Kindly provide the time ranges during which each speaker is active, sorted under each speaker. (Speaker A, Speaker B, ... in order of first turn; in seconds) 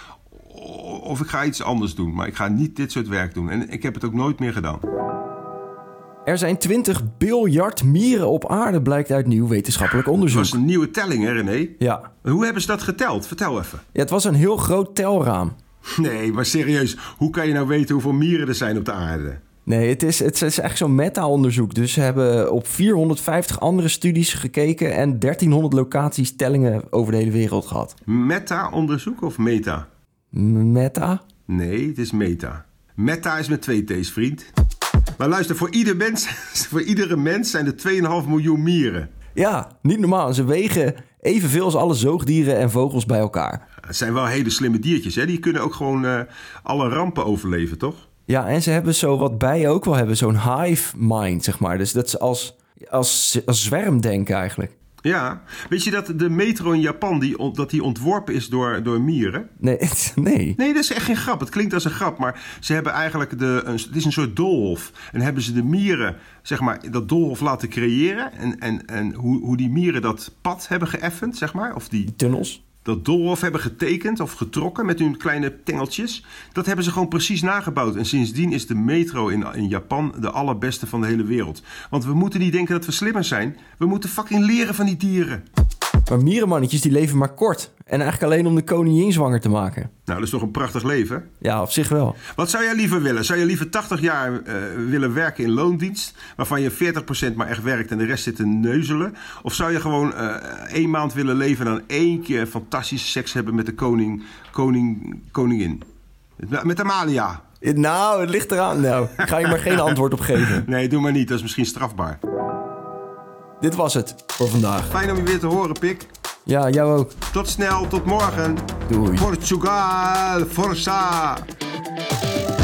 Speaker A: 0.4-4.8, 10.2-13.8, 15.9-19.4, 28.1-29.9, 31.5-34.5, 35.2-39.1, 43.9-48.1, 55.0-59.5, 60.6-72.1, 72.8-85.4, 90.1-91.3, 92.3-105.8, 106.4-107.4, 110.6-112.2, 114.9-116.1, 117.3-121.4
Speaker B: 6.2-10.6, 11.8-12.1, 13.9-15.6, 19.7-27.9, 30.3-31.2, 39.4-43.6, 48.3-54.7, 59.6-60.6, 72.1-72.6, 86.1-89.9, 91.4-92.2, 107.6-110.7, 113.6-114.9, 116.5-117.1, 118.9-119.3